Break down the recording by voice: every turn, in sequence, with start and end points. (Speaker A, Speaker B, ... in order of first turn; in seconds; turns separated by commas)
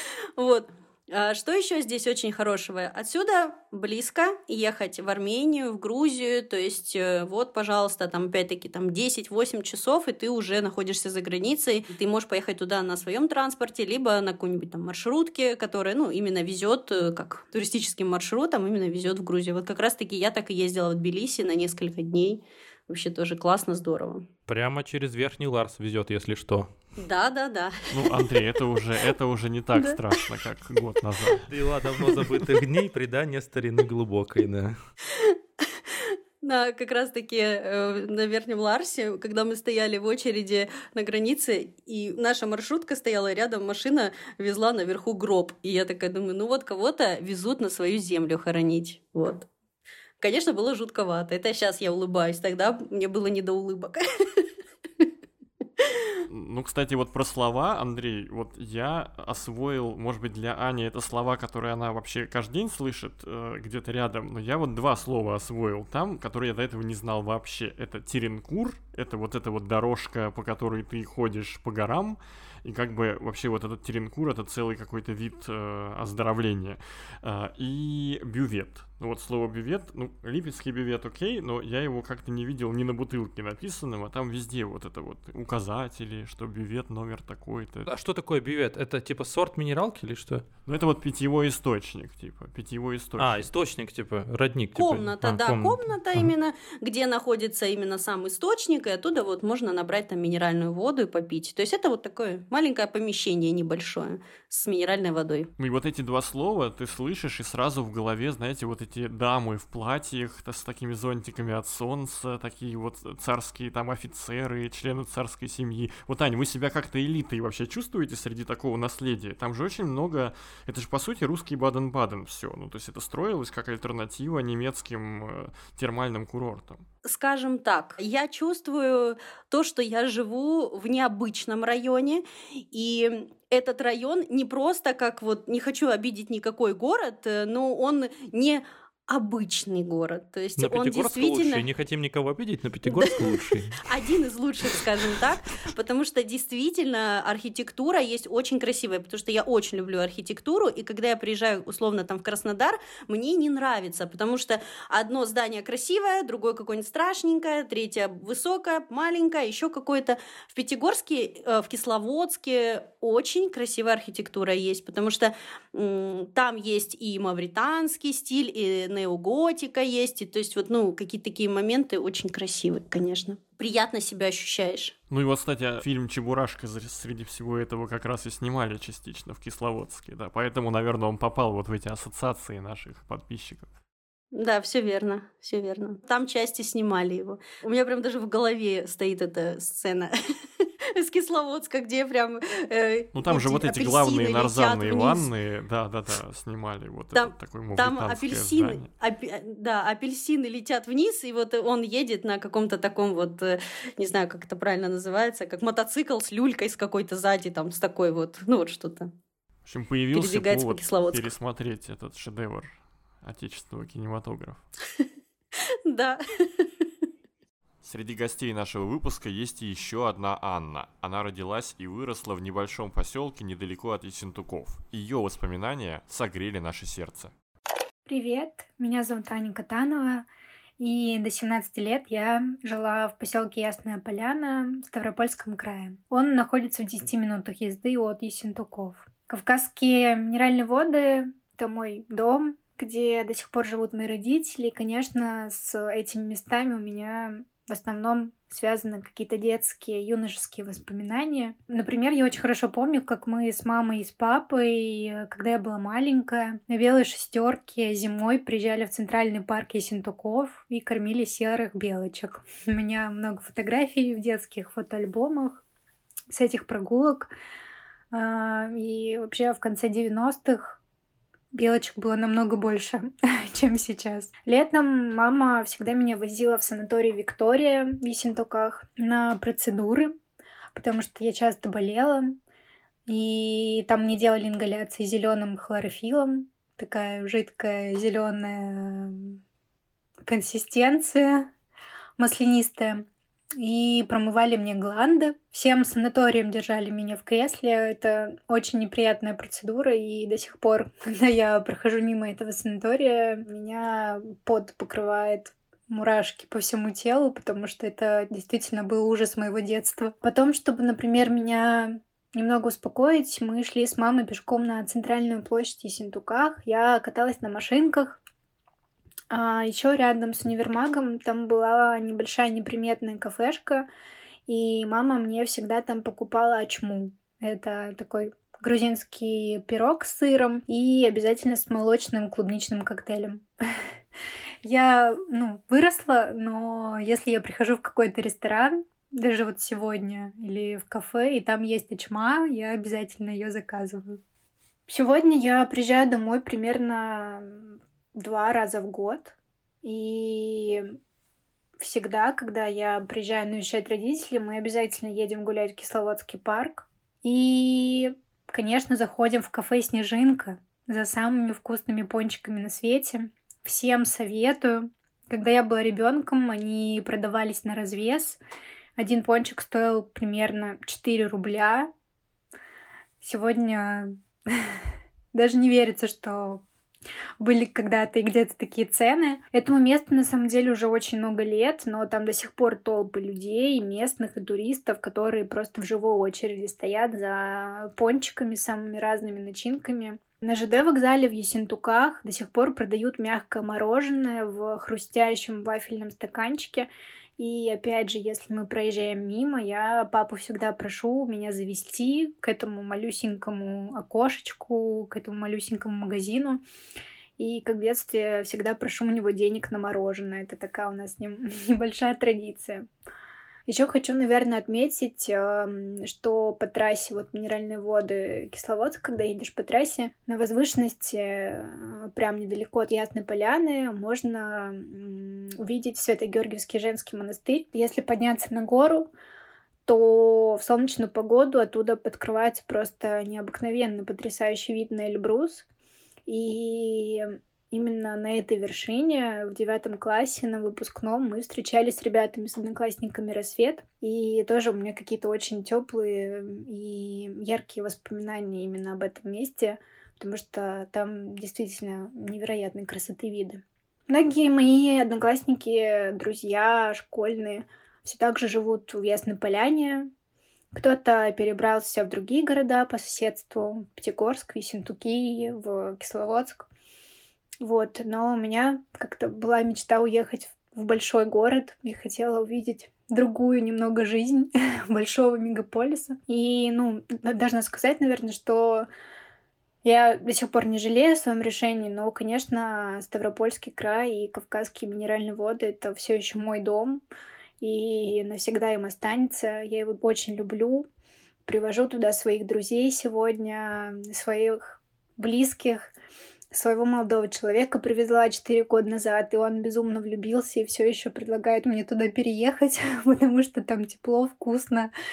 Speaker A: 0.4-24.2, Speaker B: 24.5-26.7, Speaker A: 27.0-27.9, Speaker C: 27.9-31.5, Speaker B: 31.5-34.8, Speaker A: 35.1-35.4, Speaker A: 35.9-49.5, Speaker A: 50.2-54.5, Speaker C: 56.3-87.9, Speaker B: 87.9-90.5, Speaker C: 90.7-93.5, Speaker B: 93.2-96.3, Speaker A: 94.8-105.5, Speaker C: 105.6-126.8, Speaker A: 127.0-141.7, Speaker B: 140.6-143.8, Speaker A: 142.9-174.9, Speaker C: 175.1-183.7, Speaker A: 184.3-190.2, Speaker A: 190.9-195.3, Speaker C: 193.2-198.9, Speaker A: 197.1-209.1, Speaker C: 209.7-214.6, Speaker A: 210.1-211.3, Speaker A: 215.6-216.9, Speaker C: 217.8-227.3, Speaker D: 228.1-230.3, Speaker D: 230.8-265.6, Speaker D: 266.3-267.3, Speaker D: 268.1-270.8, Speaker D: 271.5-280.2, Speaker D: 280.8-282.4, Speaker D: 283.1-289.4, Speaker D: 290.2-291.5, Speaker D: 292.2-293.1, Speaker D: 293.6-318.2, Speaker D: 319.3-323.9, Speaker D: 324.5-333.9, Speaker D: 334.6-344.2, Speaker D: 344.9-351.0, Speaker D: 351.8-368.4, Speaker D: 369.0-371.9, Speaker D: 373.2-374.8, Speaker D: 375.3-376.6, Speaker D: 377.4-406.6, Speaker D: 407.4-412.9, Speaker D: 413.7-429.1, Speaker D: 429.9-435.6, Speaker D: 436.3-460.1, Speaker D: 460.7-466.7, Speaker D: 467.6-478.9, Speaker D: 479.8-487.0, Speaker D: 487.6-490.9, Speaker D: 491.5-495.9, Speaker D: 496.5-504.9